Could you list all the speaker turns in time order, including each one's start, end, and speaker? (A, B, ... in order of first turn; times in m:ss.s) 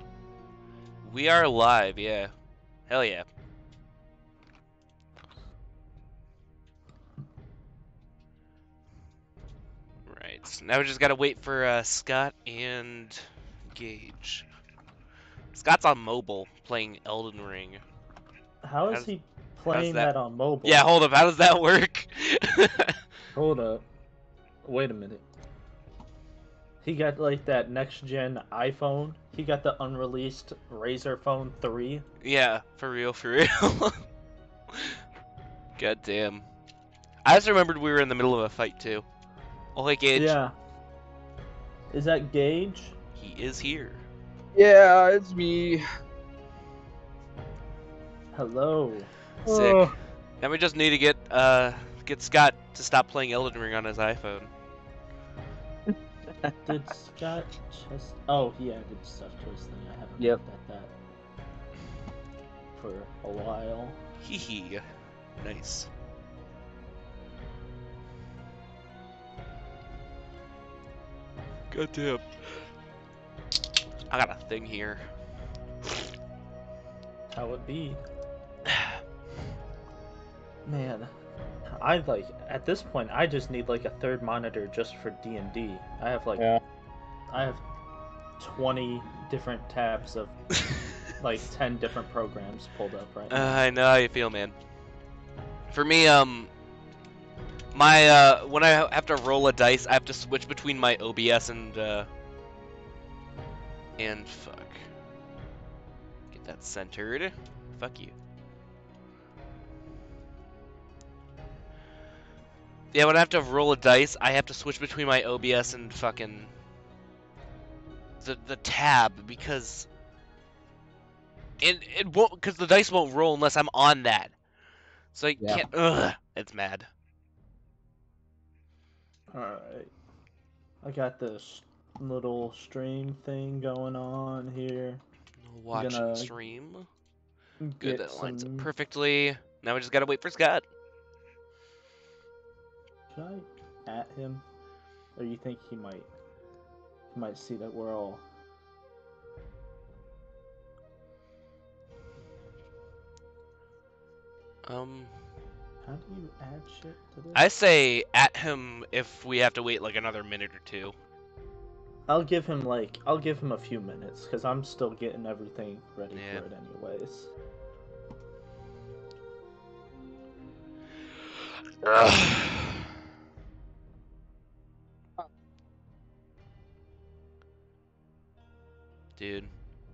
0:01.0-0:02.3 A
0:02.9-0:03.3 A
0:10.1-0:14.5 A
0:15.5-0:17.8 A
0:18.6-0:20.9 B
0:19.7-0:20.1 A
0:20.6-0:23.0 A
0:23.4-0:23.8 B
0:24.6-0:25.2 B
0:26.8-0:32.1 B
0:32.2-0:34.0 A
0:34.7-0:35.0 A
0:35.8-0:36.4 A
0:37.2-0:39.0 A
0:39.8-0:40.4 A
0:40.2-0:40.5 B
0:41.9-0:43.0 B
0:43.2-0:44.0 A
0:44.6-0:45.8 C
0:48.3-0:49.9 B
0:49.5-0:49.9 A
0:49.5-0:49.8 C
0:50.4-0:54.5 A
0:55.9-0:56.5 C
0:56.7-1:00.9 B
1:02.8-1:04.0 B
1:04.2-1:04.8 A
1:05.4-1:05.9 A
1:11.7-1:12.3 A
1:14.1-1:15.0 A
1:17.3-1:18.0 B
1:18.7-1:19.0 A
1:20.6-1:21.1 B
1:21.7-1:26.5 B
1:27.3-1:27.6 B
1:28.4-1:30.4 B
1:31.2-1:33.6 B
1:33.3-1:34.6 A
1:35.7-1:36.5 A
1:37.7-1:42.1 A
1:44.0-1:44.9 A
1:46.3-1:48.1 A
1:52.9-1:56.5 A
1:58.2-1:59.9 A
2:01.6-2:04.3 A
2:05.1-2:06.9 A
2:09.3-2:09.9 B
2:10.8-2:15.0 B
2:15.4-2:16.9 A
2:15.7-2:16.3 B
2:17.6-2:18.7 B
2:17.8-2:20.6 A
2:23.1-2:24.4 B
2:25.2-2:26.1 B
2:27.1-2:28.2 B
2:34.7-2:35.1 A
2:35.8-2:37.4 B
2:37.4-2:40.9 A
2:42.1-2:47.3 B
2:46.1-2:46.4 A
2:51.8-2:52.6 A
2:59.2-2:59.5 A